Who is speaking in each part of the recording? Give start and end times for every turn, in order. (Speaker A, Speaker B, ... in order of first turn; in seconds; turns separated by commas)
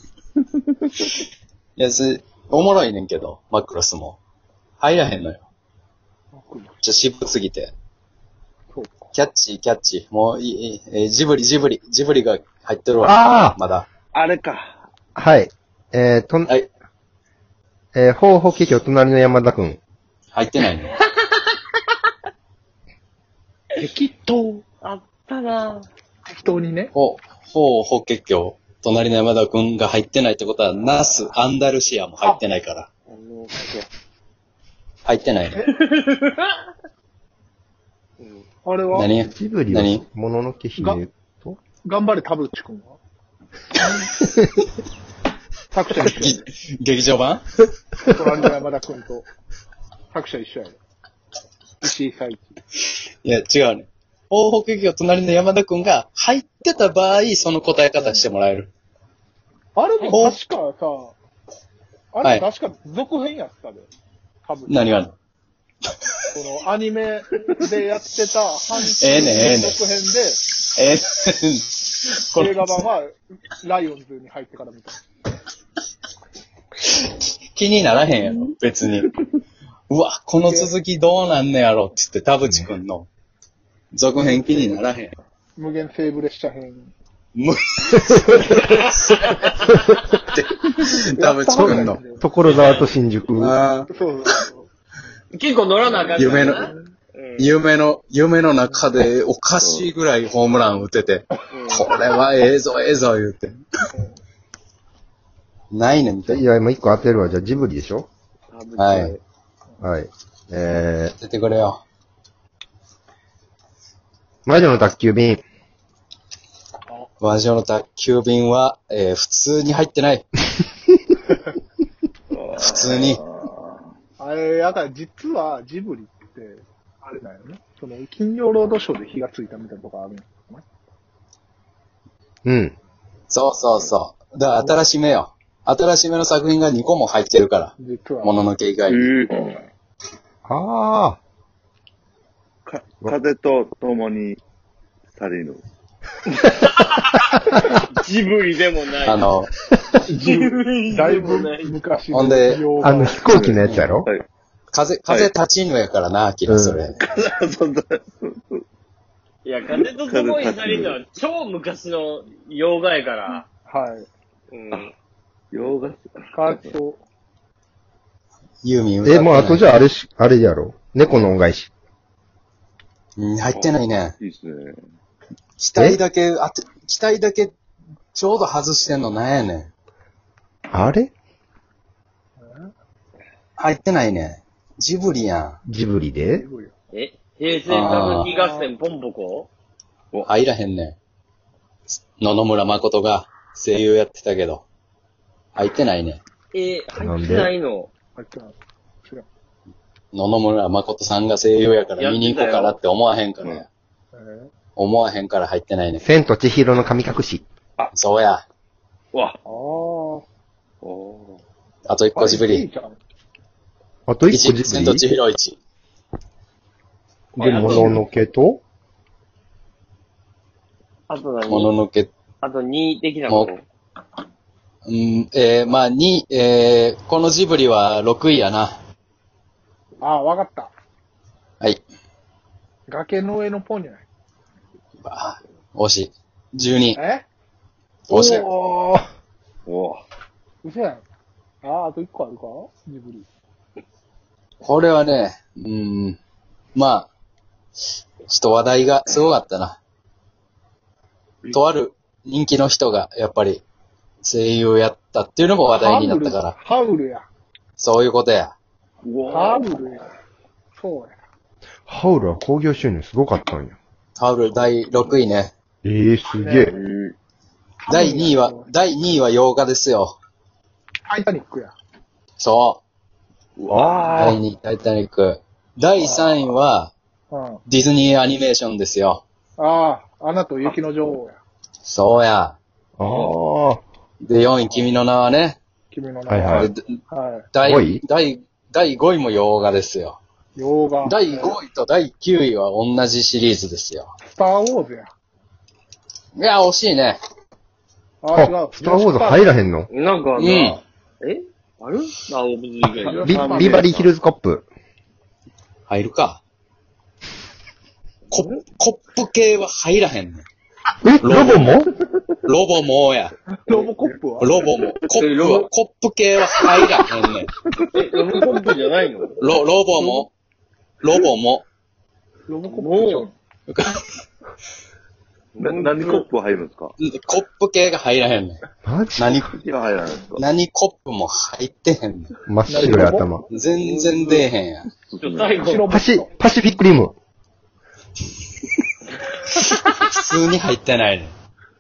Speaker A: 1.8-4.2, Speaker A: 4.8-5.5, Speaker B: 6.3-6.8, Speaker A: 6.8-7.7, Speaker B: 8.7-9.1, Speaker A: 9.1-13.9, Speaker C: 13.0-13.6, Speaker D: 14.1-14.8, Speaker C: 15.2-16.5, Speaker C: 17.9-19.8, Speaker A: 20.3-21.0, Speaker E: 21.0-21.6, Speaker B: 23.8-24.6, Speaker E: 24.8-25.9, Speaker B: 26.3-26.9, Speaker A: 26.9-32.9, Speaker E: 33.1-33.9, Speaker A: 35.0-35.7, Speaker E: 35.7-36.6, Speaker E: 38.2-38.5, Speaker B: 38.6-39.1, Speaker A: 38.9-40.0, Speaker C: 39.2-41.6, Speaker B: 40.8-41.0, Speaker B: 41.8-43.0, Speaker B: 45.7-46.4, Speaker A: 46.0-47.6, Speaker B: 48.1-49.3, Speaker B: 50.1-50.8, Speaker B: 51.8-52.6, Speaker A: 53.2-58.7, Speaker B: 59.8-61.2, Speaker A: 60.1-60.4, Speaker B: 62.1-63.9, Speaker B: 64.4-65.1, Speaker A: 64.7-65.2, Speaker B: 66.3-70.4, Speaker A: 69.0-69.8, Speaker A: 70.7-72.8, Speaker B: 72.3-75.0, Speaker A: 77.5-79.1, Speaker A: 79.9-83.1, Speaker B: 80.5-80.7, Speaker A: 83.9-85.1, Speaker B: 85.6-86.9, Speaker A: 87.3-92.8, Speaker B: 91.2-92.3, Speaker C: 91.5-93.6, Speaker E: 92.5-92.9, Speaker A: 93.4-93.9, Speaker B: 93.9-94.7, Speaker E: 95.3-97.5, Speaker B: 96.1-96.5, Speaker A: 96.1-96.7, Speaker A: 97.4-103.6, Speaker D: 99.6-99.9, Speaker E: 101.5-101.9, Speaker A: 105.7-106.5, Speaker C: 106.3-108.1, Speaker E: 108.5-109.2, Speaker A: 108.8-109.2, Speaker C: 109.8-111.2, Speaker A: 111.2-111.8, Speaker C: 114.5-115.4, Speaker A: 117.2-120.3, Speaker D: 122.3-123.9, Speaker A: 122.6-123.2, Speaker B: 124.2-130.7, Speaker C: 132.4-132.8, Speaker A: 133.3-139.1, Speaker B: 137.8-138.4, Speaker D: 138.9-139.6, Speaker C: 140.5-141.2, Speaker D: 142.7-144.4, Speaker D: 145.1-145.6, Speaker E: 146.3-149.3, Speaker A: 149.0-149.5, Speaker B: 150.1-153.3, Speaker E: 150.2-151.8, Speaker A: 152.1-152.8, Speaker C: 152.8-154.1, Speaker D: 153.2-154.3, Speaker A: 153.6-153.9, Speaker A: 154.7-157.0, Speaker C: 156.5-156.8, Speaker D: 157.0-158.6, Speaker E: 159.4-163.4, Speaker D: 159.7-161.0, Speaker B: 163.7-164.1, Speaker E: 164.5-164.9, Speaker D: 165.5-166.7, Speaker B: 166.3-167.0, Speaker A: 168.6-169.8, Speaker C: 169.0-171.7, Speaker A: 173.2-174.2, Speaker D: 173.5-174.8, Speaker A: 175.6-177.5, Speaker A: 178.1-179.7, Speaker C: 180.7-181.1, Speaker B: 182.4-182.7, Speaker A: 183.6-185.6, Speaker C: 185.7-186.5, Speaker B: 186.2-186.8, Speaker E: 186.9-189.5, Speaker A: 187.7-188.3, Speaker B: 187.9-188.7, Speaker A: 190.2-191.0, Speaker A: 192.2-194.7, Speaker A: 195.6-196.2, Speaker E: 196.5-197.9, Speaker C: 196.9-197.5, Speaker B: 198.2-199.3, Speaker A: 200.1-203.7, Speaker E: 202.0-202.8, Speaker B: 204.1-204.5, Speaker A: 204.8-206.1, Speaker C: 206.0-207.4, Speaker A: 207.9-208.4, Speaker D: 209.1-209.4, Speaker B: 209.4-210.2, Speaker D: 210.8-211.4, Speaker A: 211.9-212.7, Speaker B: 212.2-213.0, Speaker C: 214.1-215.1, Speaker A: 214.3-215.6, Speaker E: 217.4-218.0, Speaker C: 217.4-218.6, Speaker B: 217.5-217.9, Speaker E: 221.1-221.8, Speaker A: 221.5-222.1, Speaker E: 222.4-223.6, Speaker A: 223.3-223.5, Speaker A: 224.9-228.8, Speaker B: 230.0-230.7, Speaker B: 232.9-234.0, Speaker A: 235.0-237.0, Speaker B: 236.9-237.3, Speaker A: 238.1-238.5, Speaker C: 238.1-239.0, Speaker D: 239.7-240.1, Speaker B: 240.6-241.0, Speaker B: 241.6-243.3, Speaker A: 244.6-246.2, Speaker A: 246.8-247.1, Speaker A: 248.3-249.8, Speaker A: 251.5-253.6, Speaker A: 254.2-256.6, Speaker B: 255.7-257.3, Speaker A: 257.8-258.6, Speaker D: 259.0-259.7, Speaker B: 259.3-260.1, Speaker B: 260.7-261.2, Speaker C: 261.9-263.8, Speaker A: 264.2-265.5, Speaker C: 265.8-266.8, Speaker B: 266.4-266.8, Speaker D: 266.7-267.2, Speaker B: 267.9-268.7, Speaker A: 267.9-270.2, Speaker B: 271.1-271.7, Speaker A: 272.4-272.8, Speaker D: 273.6-274.4, Speaker C: 273.7-274.4, Speaker A: 274.2-276.9, Speaker B: 277.3-277.6, Speaker A: 277.7-279.2, Speaker B: 279.6-281.4, Speaker A: 281.8-282.6, Speaker C: 283.0-283.8, Speaker D: 283.0-283.4, Speaker A: 284.2-285.6, Speaker B: 285.9-287.5, Speaker C: 286.3-286.7, Speaker A: 286.5-286.9, Speaker A: 287.5-290.2, Speaker C: 287.6-288.0, Speaker B: 290.6-291.6, Speaker A: 291.0-294.1, Speaker B: 294.2-295.1, Speaker A: 296.4-297.2, Speaker B: 298.2-299.5, Speaker C: 298.3-299.9, Speaker E: 299.9-303.5, Speaker A: 300.4-300.8, Speaker B: 303.0-303.9, Speaker D: 303.2-304.1, Speaker C: 303.2-304.6, Speaker A: 305.9-306.4, Speaker A: 308.3-310.4, Speaker E: 308.3-308.6, Speaker C: 311.0-311.9, Speaker A: 311.2-311.8, Speaker A: 312.4-313.3, Speaker B: 313.6-314.7, Speaker A: 314.4-317.5, Speaker E: 315.1-315.7, Speaker E: 317.9-319.4, Speaker D: 318.2-318.7, Speaker A: 319.4-320.3, Speaker A: 321.0-321.7, Speaker B: 322.5-323.3, Speaker E: 322.7-323.3, Speaker A: 323.7-324.0, Speaker E: 325.6-326.3, Speaker D: 325.6-326.9, Speaker A: 327.0-328.6, Speaker C: 328.8-329.5, Speaker A: 329.2-329.5, Speaker D: 329.5-330.5, Speaker A: 330.4-332.3, Speaker C: 332.5-333.4, Speaker B: 332.7-333.3, Speaker A: 333.5-334.9, Speaker E: 333.6-334.5, Speaker D: 334.9-335.6, Speaker E: 335.2-335.9, Speaker B: 335.6-336.3, Speaker C: 335.9-337.1, Speaker A: 340.0-341.3